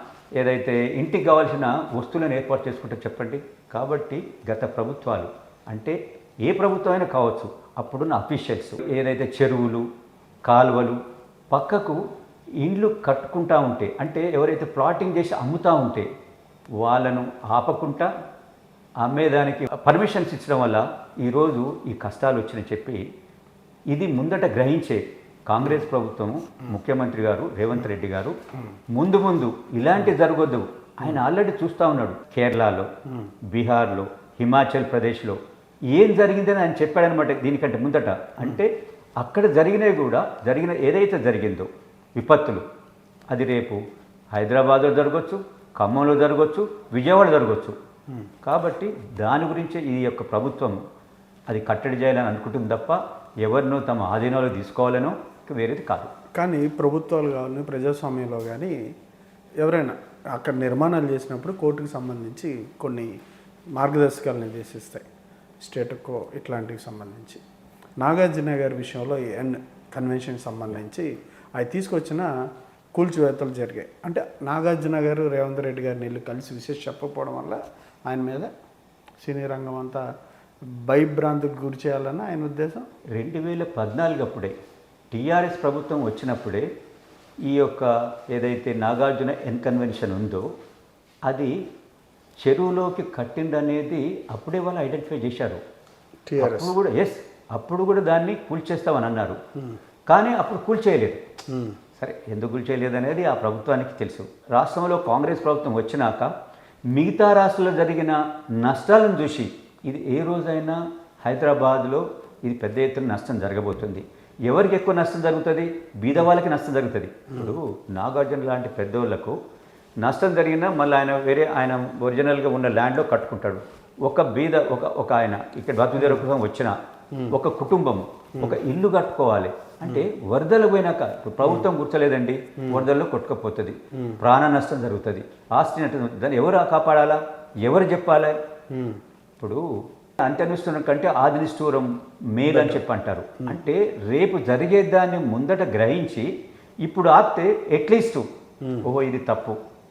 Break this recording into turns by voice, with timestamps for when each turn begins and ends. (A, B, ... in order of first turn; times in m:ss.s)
0:00.4-0:09.8 A
0:10.5-0:11.0 A
0:11.5-0:12.0 A
0:12.6-0:16.1 A
0:16.8-0:18.1 A
0:19.0-0:23.0 A
0:23.9-0:28.4 A
0:28.9-0:32.9 A
0:33.5-0:35.4 A
0:35.9-0:42.6 A
0:43.3-0:43.8 A
0:44.3-0:47.8 A
0:48.4-0:50.8 A
0:51.5-0:56.1 A
0:56.4-0:58.7 B
0:59.6-1:03.1 B
1:03.8-1:05.1 B
1:05.6-1:07.4 B
1:08.0-1:12.3 B
1:13.0-1:18.5 B
1:19.2-1:20.0 B
1:20.9-1:22.9 B
1:23.2-1:24.5 A
1:25.1-1:26.7 A
1:27.5-1:30.4 A
1:31.3-1:31.5 A
1:32.4-1:35.6 A
1:36.3-1:36.8 B
1:36.4-1:39.4 A
1:40.1-1:41.2 A
1:41.5-1:41.8 B
1:42.0-1:46.3 A
1:46.9-1:59.4 A
2:00.0-2:06.7 A
2:06.0-2:06.2 B
2:07.3-2:18.4 A
2:11.4-2:11.7 B
2:12.6-2:12.9 B
2:18.7-2:19.0 B
2:20.2-2:26.3 A
2:22.5-2:22.8 B
2:26.8-2:28.2 A
2:28.8-2:29.6 A